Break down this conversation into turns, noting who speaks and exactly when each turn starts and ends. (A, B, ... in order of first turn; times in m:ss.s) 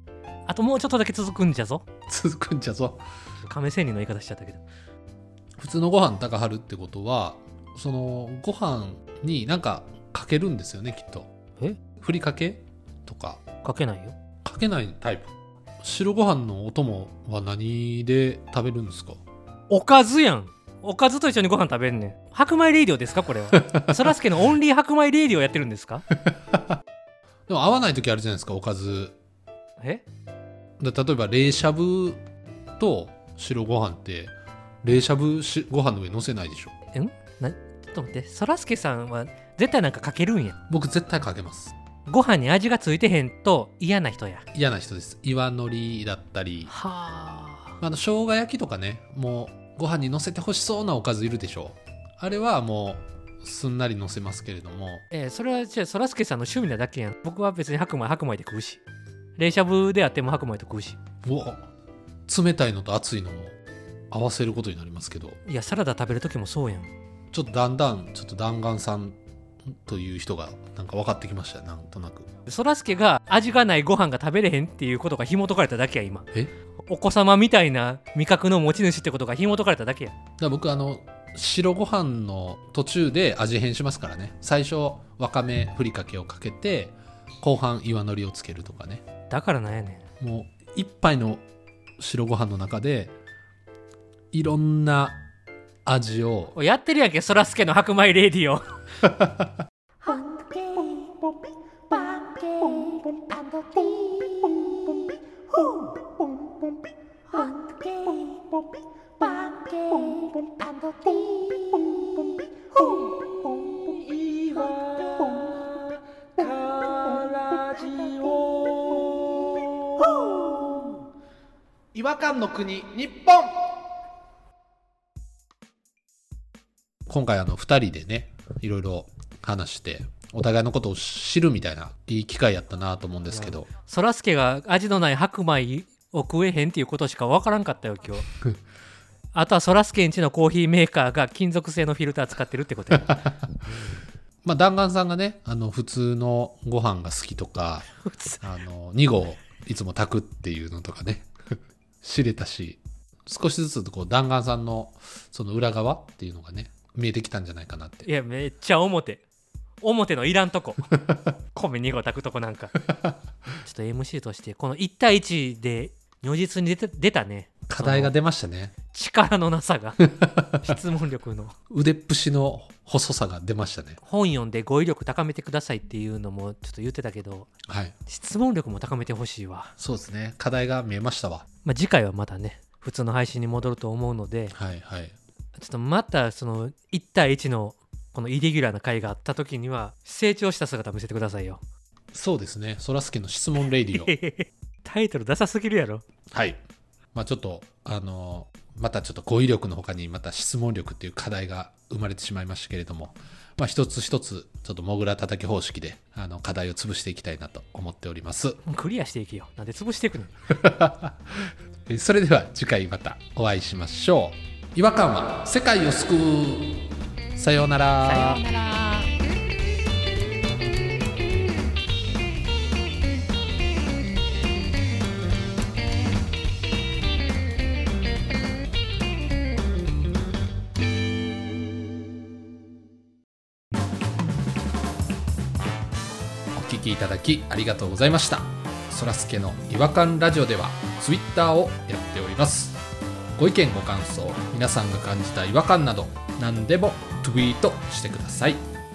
0:00.5-0:01.8 A
0:02.1-0:03.0 B
0:03.4-0:04.6 A
0:05.6-0:11.3 B
0:12.0-0:13.4 B
0:13.6-0:14.1 A
0:14.4-0:19.2 B
0:19.7-0:26.0 A
0:23.5-0:24.0 B
0:26.2-0:26.7 B
0:27.5-0:29.2 B
0:29.8-0:30.0 A
0:30.8-0:32.2 B
0:32.8-0:34.3 B
0:34.8-0:36.7 B
0:36.9-0:40.6 A
0:40.7-0:41.7 B
0:42.1-0:44.4 A
0:44.5-0:46.7 B
0:46.7-0:47.8 A
0:47.8-0:55.0 B
0:55.1-0:58.8 A
0:59.4-1:01.0 A
1:01.2-1:01.7 B
1:02.3-1:03.5 B
1:04.1-1:05.4 B
1:05.4-1:06.9 A
1:07.3-1:09.2 B
1:09.7-1:12.3 B
1:12.4-1:16.3 A
1:16.9-1:20.1 A
1:20.4-1:29.0 B
1:29.3-1:30.0 A
1:30.2-1:31.4 B
1:32.0-1:33.1 B
1:34.3-1:35.2 B
1:35.8-1:36.6 B
1:36.5-1:38.6 A
1:39.0-1:39.5 B
1:40.0-1:41.3 A
1:41.9-1:44.5 A
1:45.6-1:45.9 A
1:47.3-1:48.5 A
1:49.2-1:51.6 A
1:52.7-2:01.0 B
2:01.9-2:03.5 B
2:07.1-2:13.7 B
2:13.3-2:18.2 A
2:19.3-2:24.0 A
2:24.4-2:27.8 B
2:28.0-2:28.4 A
2:28.4-2:31.3 B
2:32.0-2:38.1 B
2:38.0-2:39.2 A
2:39.8-2:40.9 A
2:41.5-2:42.8 A
2:43.6-2:48.1 A
2:47.7-2:48.7 B
2:48.9-2:50.0 A
2:50.0-2:50.8 B
2:50.6-2:51.5 A
2:51.7-2:54.0 B
2:54.0-2:57.5 A
2:57.7-2:57.9 B
2:58.0-2:59.7 A
2:59.8-3:01.4 B
3:01.6-3:04.5 A
3:04.5-3:05.1 B
3:05.6-3:11.6 A
3:12.1-3:14.1 B
3:13.9-3:16.0 A
3:17.1-3:28.6 B
3:28.6-3:30.4 A
3:30.5-3:31.3 B
3:31.9-3:38.4 B
3:38.0-3:39.1 A
3:56.5-4:02.8 B
4:03.4-4:08.6 B